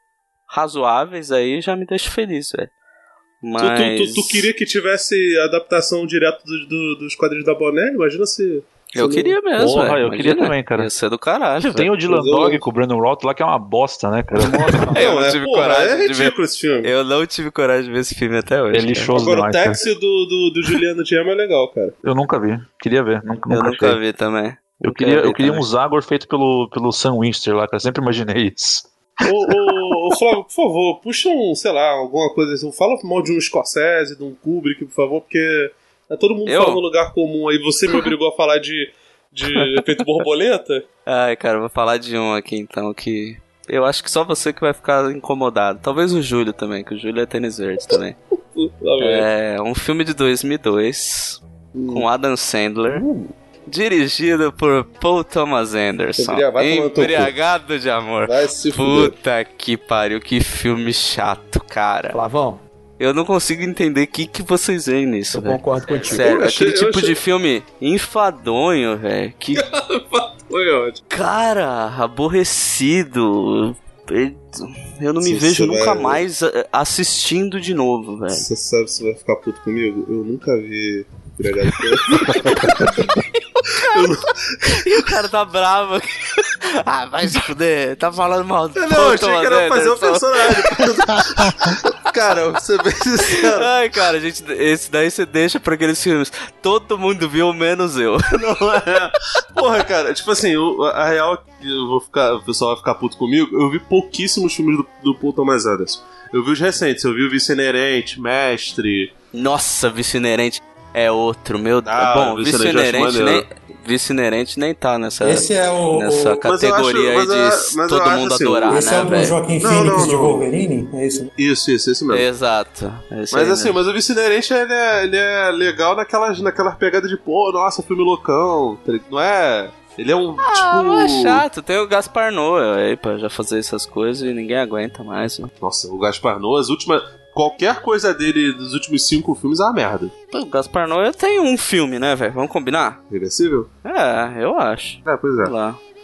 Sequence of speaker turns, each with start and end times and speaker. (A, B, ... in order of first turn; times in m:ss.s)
0:00.5-0:02.7 A
0:03.4-0:04.5 A
0:03.6-0:09.4 B
0:08.9-0:11.9 A
0:09.6-0:10.9 C
0:11.7-0:14.8 C
0:12.0-0:12.6 B
0:14.4-0:15.1 D
0:14.9-0:16.9 B
0:14.9-0:19.1 A
0:18.7-0:19.8 C
0:19.1-0:21.9 B
0:22.0-0:24.0 C
0:23.5-0:25.7 A
0:24.8-0:28.8 C
0:29.2-0:40.8 B
0:36.4-0:36.8 A
0:39.5-0:39.8 A
0:41.1-0:48.2 A
0:48.5-0:49.2 B
0:49.0-0:53.0 A
0:51.7-0:52.1 B
0:53.7-1:02.2 A
0:56.2-0:57.3 B
0:58.2-0:59.1 B
1:02.1-1:02.6 D
1:03.0-1:09.6 A
1:05.3-1:06.3 D
1:06.0-1:07.2 B
1:09.5-1:11.0 B
1:11.1-1:18.5 A
1:15.2-1:16.2 B
1:18.3-1:22.9 B
1:22.1-1:22.8 A
1:23.8-1:24.7 B
1:24.8-1:31.2 A
1:28.7-1:33.7 B
1:33.4-1:38.8 A
1:38.5-1:49.1 B
1:49.3-1:59.4 A
1:51.8-1:53.4 B
1:55.2-1:56.4 E
1:56.4-1:58.9 B
1:58.7-2:01.3 E
1:59.6-2:00.4 B
2:01.4-2:02.2 B
2:02.1-2:03.8 A
2:03.3-2:11.4 B
2:10.4-2:15.5 A
2:15.6-2:20.1 B
2:20.3-2:23.0 A
2:23.1-2:23.7 B
2:23.8-2:25.8 A
2:25.0-2:25.5 B